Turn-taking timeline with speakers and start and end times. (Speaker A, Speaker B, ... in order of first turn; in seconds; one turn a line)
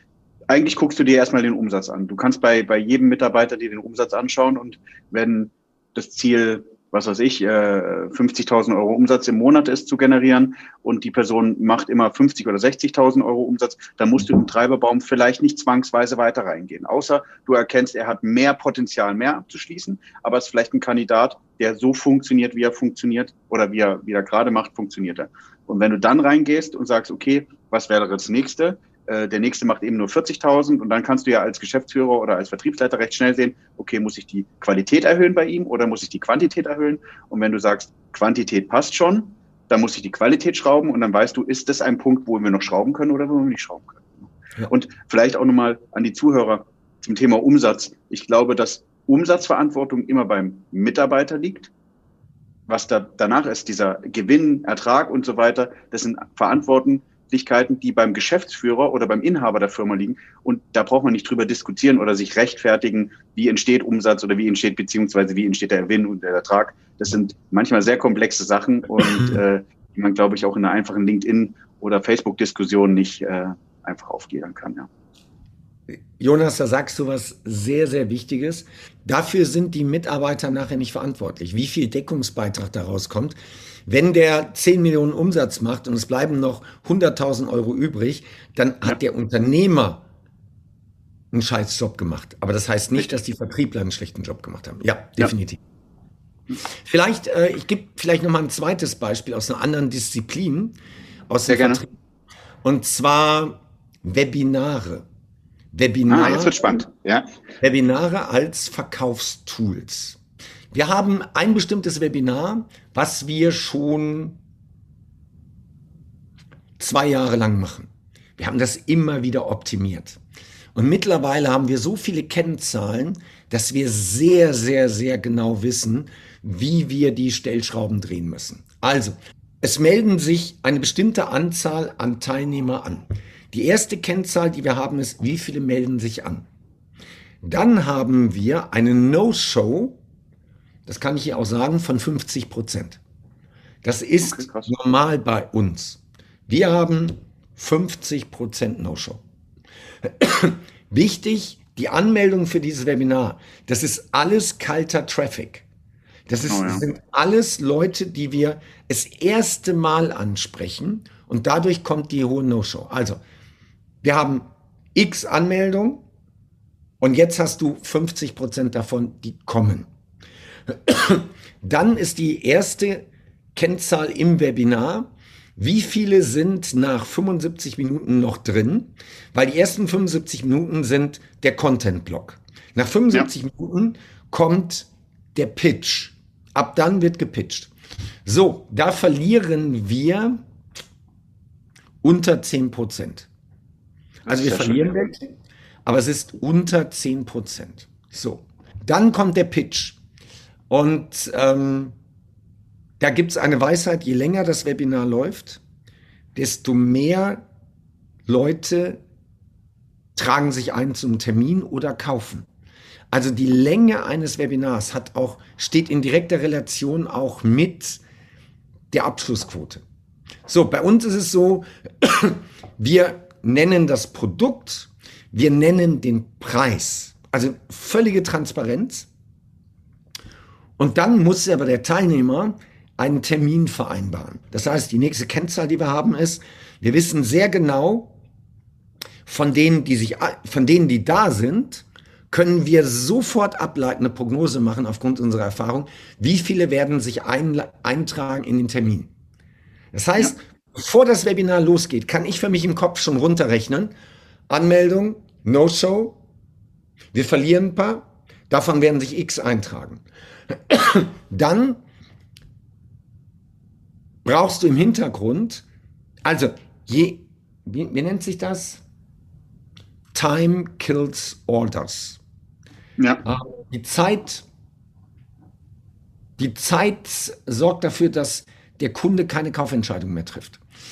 Speaker A: 0.5-51.7
Speaker A: 52.7-74.9
Speaker B: 69.0-69.4
Speaker B: 76.2-83.4
Speaker B: 83.9-90.0
Speaker B: 91.3-95.6
Speaker B: 96.8-100.7
Speaker B: 101.3-101.9
Speaker A: 101.5-101.8
Speaker B: 102.6-105.1
Speaker B: 105.7-106.8
Speaker A: 106.1-107.2
Speaker B: 107.6-110.2
Speaker B: 110.7-114.4
Speaker B: 116.8-120.2
Speaker B: 120.7-136.4
Speaker B: 137.4-139.9
Speaker B: 140.9-143.0
Speaker B: 143.8-149.2
Speaker A: 144.2-144.7
Speaker B: 150.0-155.6
Speaker B: 156.3-163.2
Speaker A: 156.5-156.8
Speaker B: 164.0-166.0
Speaker B: 167.0-169.9
Speaker B: 170.7-187.7
Speaker B: 188.2-190.4
Speaker B: 192.0-193.3
Speaker A: 194.2-195.0
Speaker B: 194.3-195.3
Speaker B: 195.9-200.0
Speaker B: 200.7-201.9
Speaker B: 203.0-205.6
Speaker B: 206.3-207.4
Speaker B: 208.2-209.0
Speaker B: 210.2-212.4
Speaker B: 213.1-218.0
Speaker B: 218.9-219.8
Speaker B: 220.4-229.1
Speaker B: 230.8-238.1
Speaker B: 239.2-249.1
Speaker B: 249.9-253.9
Speaker B: 254.5-256.2
Speaker B: 257.1-261.8
Speaker B: 264.2-265.6
Speaker B: 266.2-268.8
Speaker B: 270.1-272.2
Speaker A: 273.0-273.2
Speaker B: 273.2-274.4
Speaker B: 276.4-280.6